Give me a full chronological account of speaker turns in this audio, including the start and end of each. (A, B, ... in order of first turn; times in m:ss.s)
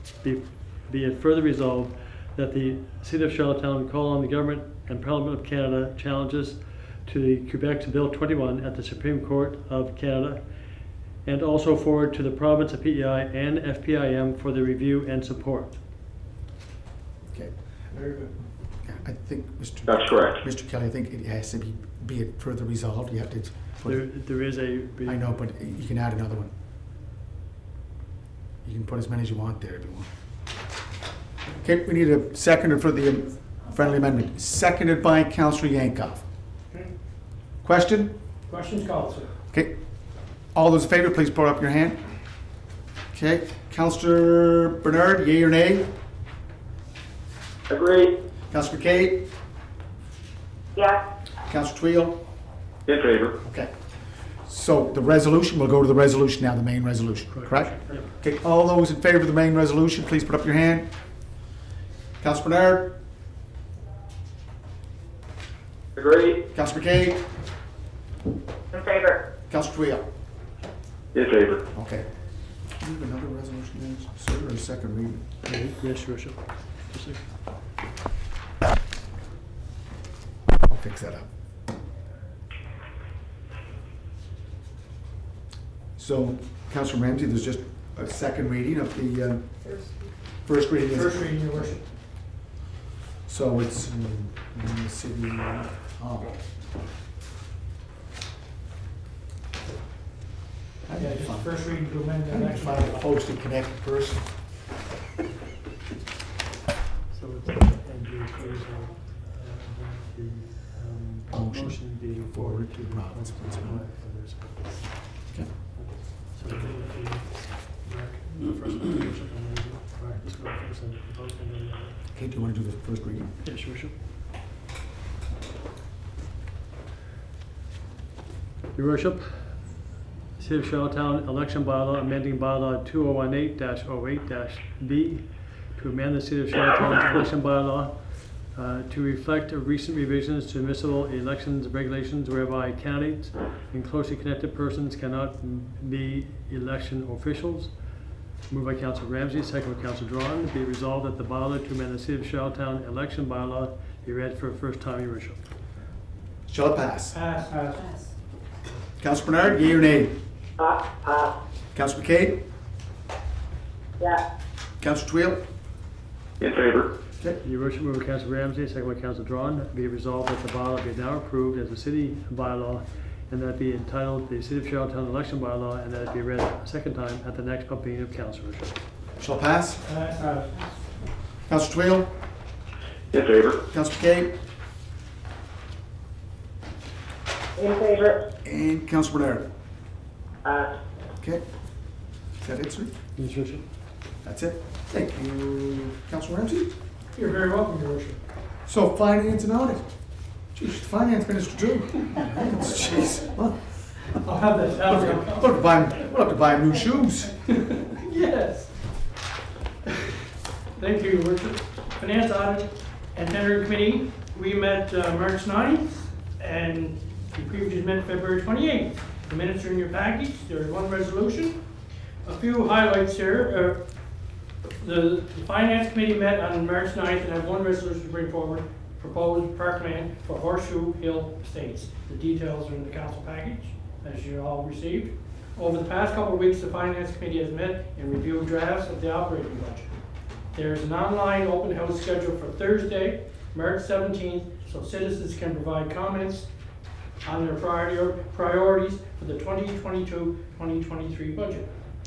0:00.2-0:10.4 A
0:11.2-0:15.8 A
0:18.8-0:24.0 B
0:19.9-0:20.4 C
0:23.8-0:25.4 A
0:25.0-0:26.5 B
0:28.6-0:30.1 B
0:31.6-0:36.2 B
0:37.6-0:38.1 B
0:38.5-0:39.3 D
0:40.5-0:42.0 B
0:43.1-0:45.9 B
0:47.7-0:48.1 C
0:48.5-0:49.2 B
0:50.7-0:51.0 E
0:51.5-0:52.2 B
0:52.8-0:53.3 C
0:53.4-0:53.7 B
0:54.4-1:00.9 B
0:57.3-0:58.2 A
1:02.2-1:02.9 B
1:06.0-1:06.4 C
1:06.5-1:07.2 B
1:08.7-1:09.2 E
1:09.5-1:10.0 B
1:11.1-1:11.6 C
1:11.7-1:12.1 B
1:12.8-1:15.2 B
1:15.4-1:17.2 A
1:20.5-1:21.3 B
1:26.0-1:29.7 B
1:30.4-1:31.7 B
1:30.9-1:31.8 D
1:33.3-1:36.4 B
1:40.8-1:41.5 B
1:41.0-1:43.1 D
1:42.2-1:44.3 B
1:47.1-1:55.2 A
1:51.3-1:53.8 B
1:55.7-2:02.0 A
2:02.1-2:03.4 B
2:03.4-2:03.9 A
2:08.7-2:09.5 A
2:10.4-2:18.0 A
2:18.5-2:27.7 A
2:28.5-2:35.4 A
2:36.5-2:37.1 B
2:37.1-2:38.0 D
2:39.0-2:40.1 B
2:40.6-2:41.3 E
2:41.7-2:42.4 B
2:44.8-2:45.4 B
2:46.4-2:46.9 C
2:47.4-2:58.7 A
2:59.2-2:59.8 B
2:59.8-3:00.7 D
3:01.5-3:02.1 B
3:03.1-3:03.6 C
3:03.7-3:04.3 B
3:07.6-3:08.2 E
3:08.4-3:09.5 B
3:10.4-3:10.7 E
3:12.4-3:12.9 B
3:13.2-3:13.6 A
3:14.2-3:16.7 B
3:17.1-3:18.2 D
3:18.7-3:19.9 B
3:20.5-3:23.8 B
3:24.1-3:25.7 D
3:24.8-3:27.4 B
3:27.5-3:28.7 D
3:30.8-3:41.6 D
3:42.2-3:43.8 D
3:44.8-3:59.9 D
4:00.5-4:06.5 D
4:07.2-4:11.7 D